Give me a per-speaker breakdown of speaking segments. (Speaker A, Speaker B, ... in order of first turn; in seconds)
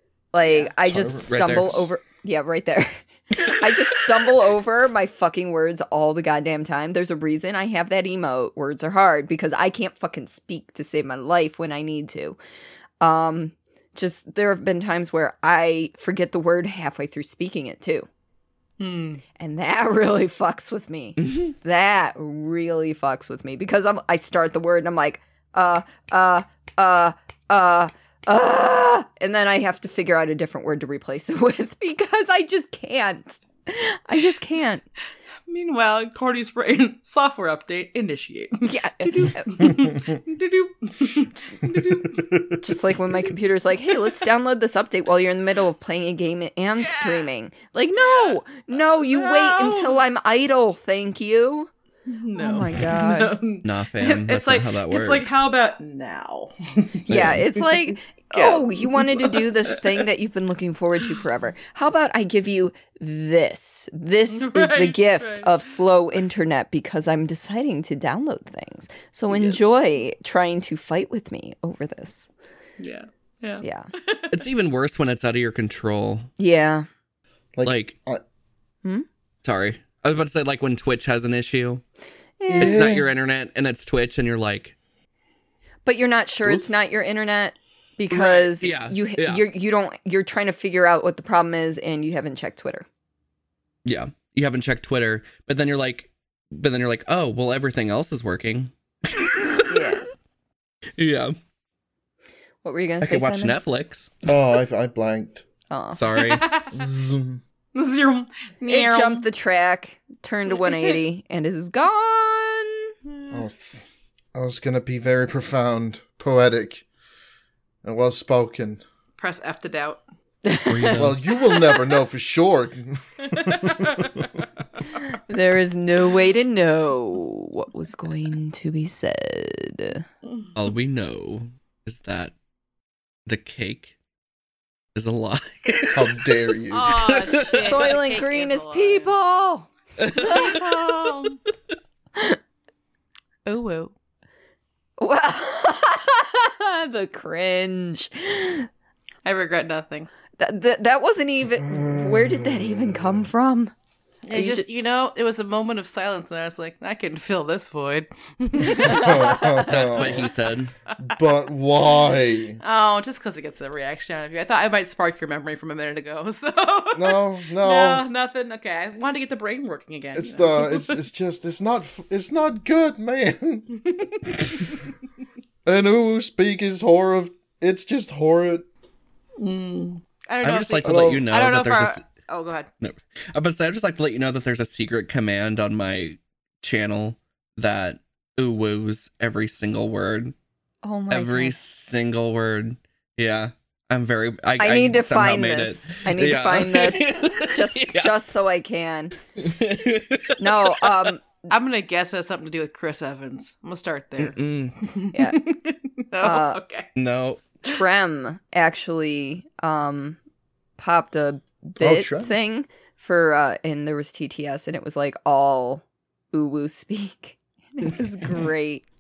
Speaker A: 0.3-12.4, 13.0-18.1, 19.4-34.9, 38.7-39.7, 42.6-51.7, 52.4-53.3, 57.1-72.3, 73.6-73.9, 76.4-76.9, 82.4-82.9, 85.8-92.9, 99.7-100.0, 102.6-103.6, 105.7-106.0, 108.7-112.9, 120.5-121.1, 125.3-130.0, 137.5-139.7, 140.2-140.5, 145.0-148.7, 150.4-153.7, 154.3-154.7, 158.7-159.5, 190.8-191.6, 194.6-199.2, 200.4-201.2, 206.2-206.6, 207.6-210.2, 210.8-218.8
Speaker B: 0.8-1.8, 77.5-78.2, 82.5-83.1, 104.2-105.4, 106.7-107.4, 113.3-116.8, 117.8-118.8, 120.9-124.0, 135.9-137.0, 151.6-153.3, 158.7-160.3, 161.0-162.6, 166.9-168.1, 170.2-173.8, 175.7-178.7, 180.8-181.3, 211.8-212.3
Speaker C: 0.9-1.9, 53.6-55.5, 57.1-57.5, 74.3-76.3, 77.6-78.0, 79.4-81.8, 82.6-84.8, 88.1-89.4, 93.8-100.0, 101.0-101.4, 103.0-104.2, 105.9-106.4, 120.7-121.2, 130.6-132.3, 133.3-133.9, 134.9-136.1, 136.9-137.8, 140.0-140.9, 159.7-160.7, 180.4-182.0, 182.8-190.3, 191.1-198.1, 199.4-200.9, 204.2-204.8, 207.0-207.4
Speaker D: 18.8-19.2, 35.5-42.5, 46.8-47.3, 48.0-48.4, 48.9-50.0, 52.1-57.4, 58.3-60.0, 64.3-65.7, 69.3-69.6, 72.8-74.4, 106.1-106.8, 107.8-109.2, 110.5-111.0, 113.1-113.4, 119.2-120.0, 123.2-124.3, 136.7-139.2, 140.2-141.4, 143.5-143.9, 149.2-150.1, 154.2-160.3, 160.9-161.2, 162.6-171.0, 173.7-174.8, 179.4-182.7, 201.5-206.9